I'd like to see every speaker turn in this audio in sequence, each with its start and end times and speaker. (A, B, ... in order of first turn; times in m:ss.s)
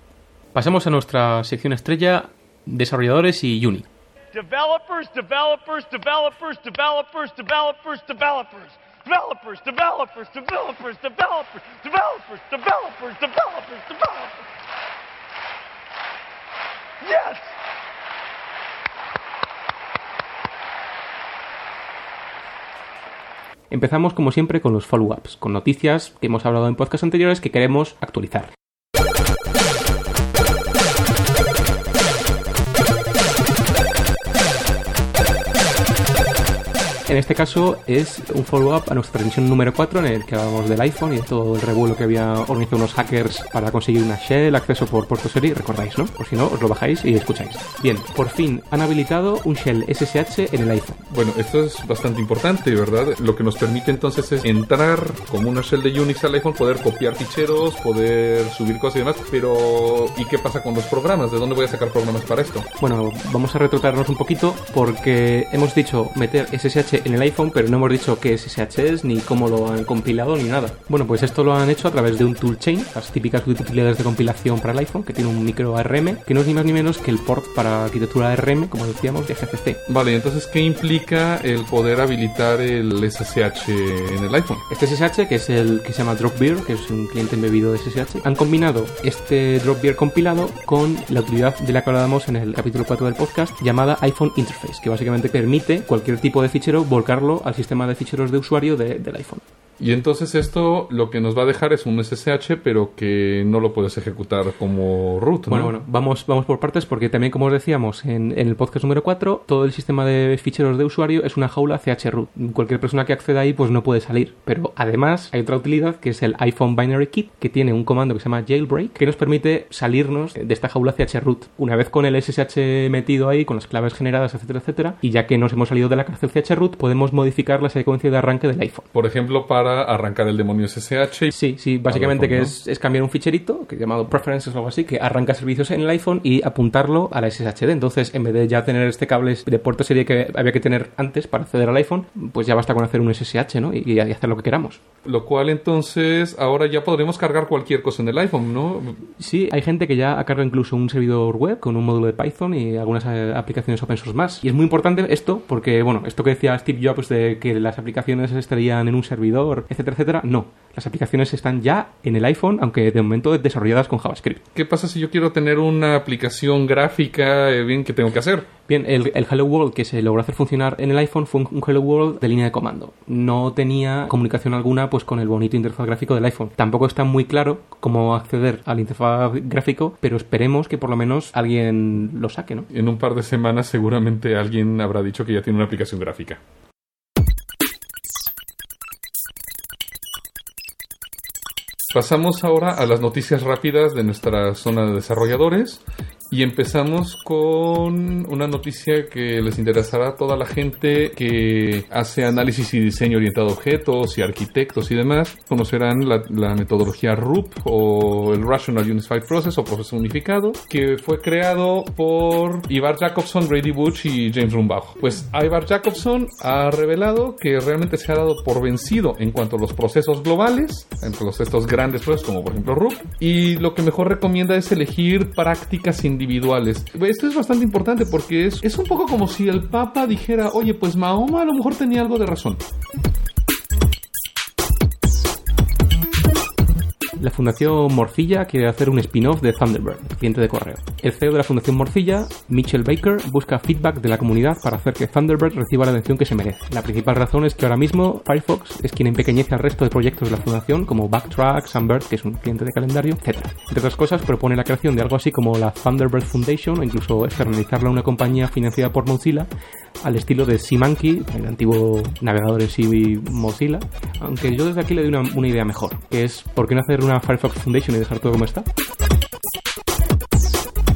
0:00.5-0:03.9 A
0:04.3-0:14.4 B
0:17.0-0:17.5 B
0:23.7-0:28.5 A
0:37.1-0:51.0 A
0:51.1-1:02.7 C
1:02.8-1:19.8 A
1:19.9-1:24.6 C
1:24.7-1:39.4 A
1:39.8-1:45.7 C
1:45.5-2:08.9 A
2:08.9-2:11.3 C
2:11.3-2:24.8 A
2:11.9-2:12.5 C
2:25.0-2:29.1 C
2:29.2-2:44.4 A
2:44.5-2:48.5 C
2:48.7-3:02.7 A
3:02.7-3:06.4 C
3:11.9-3:52.6 C
3:57.2-4:19.5 A
4:20.0-4:28.6 A